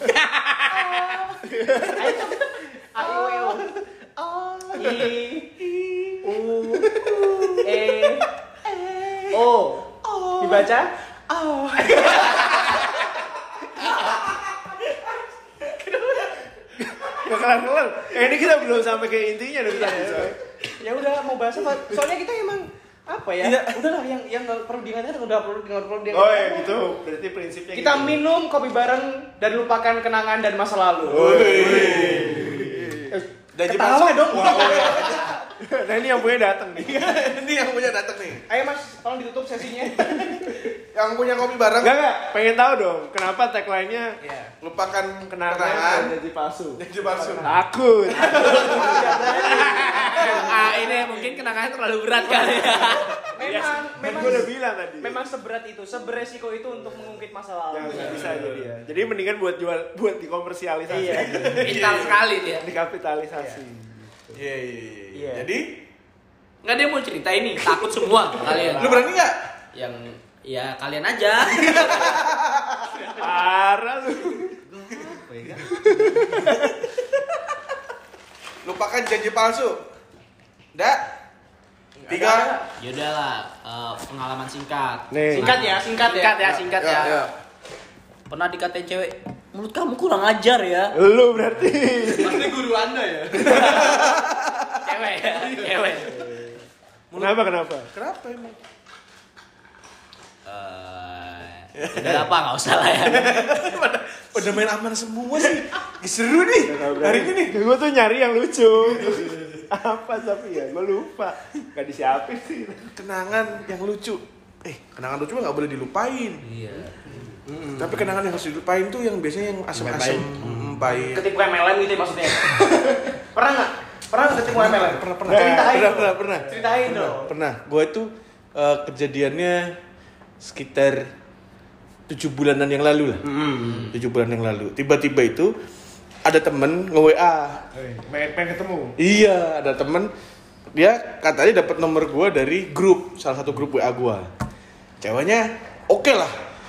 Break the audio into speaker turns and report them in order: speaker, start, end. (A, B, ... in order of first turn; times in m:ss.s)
0:00.3-0:01.2 A
0:00.9-0:12.9 B
0:01.5-0:02.1 C
0:06.2-0:07.6 C
0:15.7-0:16.3 B
0:16.9-0:20.4 C
0:19.6-0:26.8 B
0:26.1-0:28.2 C
0:27.7-0:31.9 B
0:31.1-0:33.2 C
0:31.2-0:32.8 D
0:33.5-0:35.4 D
0:33.6-0:35.2 B
0:35.6-0:37.1 C
0:36.8-0:38.4 D
0:38.5-0:40.2 B
0:40.9-0:42.0 D
0:41.8-0:44.2 C
0:44.2-0:44.5 B
0:44.6-0:46.2 D
0:45.3-0:46.8 C
0:46.8-0:47.5 D
0:47.1-0:47.5 B
0:47.4-0:49.4 C
0:48.1-0:51.1 B
0:48.3-0:49.2 D
0:49.3-0:53.2 A
0:53.4-0:58.5 B
0:53.4-0:55.2 C
0:57.7-1:01.7 C
1:00.9-1:01.3 B
1:01.2-1:02.2 D
1:01.5-1:02.7 A
1:02.5-1:04.4 C
1:03.3-1:03.6 B
1:04.3-1:05.8 D
1:05.1-1:05.5 B
1:06.6-1:09.0 A
1:08.4-1:09.1 C
1:08.8-1:09.4 D
1:09.7-1:12.2 A
1:11.6-1:12.8 D
1:12.9-1:13.4 B
1:13.2-1:14.5 C
1:14.7-1:16.2 E
1:15.8-1:16.7 C
1:18.6-1:19.8 D
1:20.7-1:21.0 D
1:22.0-1:22.6 B
1:22.1-1:22.5 D
1:22.8-1:27.3 A
1:25.1-1:25.6 C
1:25.3-1:26.4 B
1:26.4-1:27.3 D
1:28.3-1:30.9 A
1:30.9-1:32.6 C
1:32.4-1:33.3 E
1:33.3-1:34.1 A
1:33.4-1:34.5 D
1:34.8-1:36.4 A
1:36.0-1:36.5 C
1:37.1-1:38.6 D
1:37.2-1:37.9 C
1:40.4-1:43.5 A
1:41.8-1:42.3 D
1:43.0-1:47.5 D
1:46.6-1:52.9 C
1:52.9-1:56.4 D
1:56.4-1:57.1 A
1:57.7-2:01.2 D
1:59.8-2:00.2 A
2:01.0-2:02.6 B
2:03.3-2:07.3 B
2:04.4-2:09.7 D
2:05.2-2:05.8 C
2:10.4-2:11.0 D
2:12.1-2:13.2 D
2:13.4-2:13.8 C
2:13.6-2:13.9 A
2:13.8-2:15.5 D
2:16.2-2:17.6 D
2:17.7-2:18.9 C
2:19.0-2:20.1 D
2:20.7-2:24.3 D
2:25.0-2:26.3 D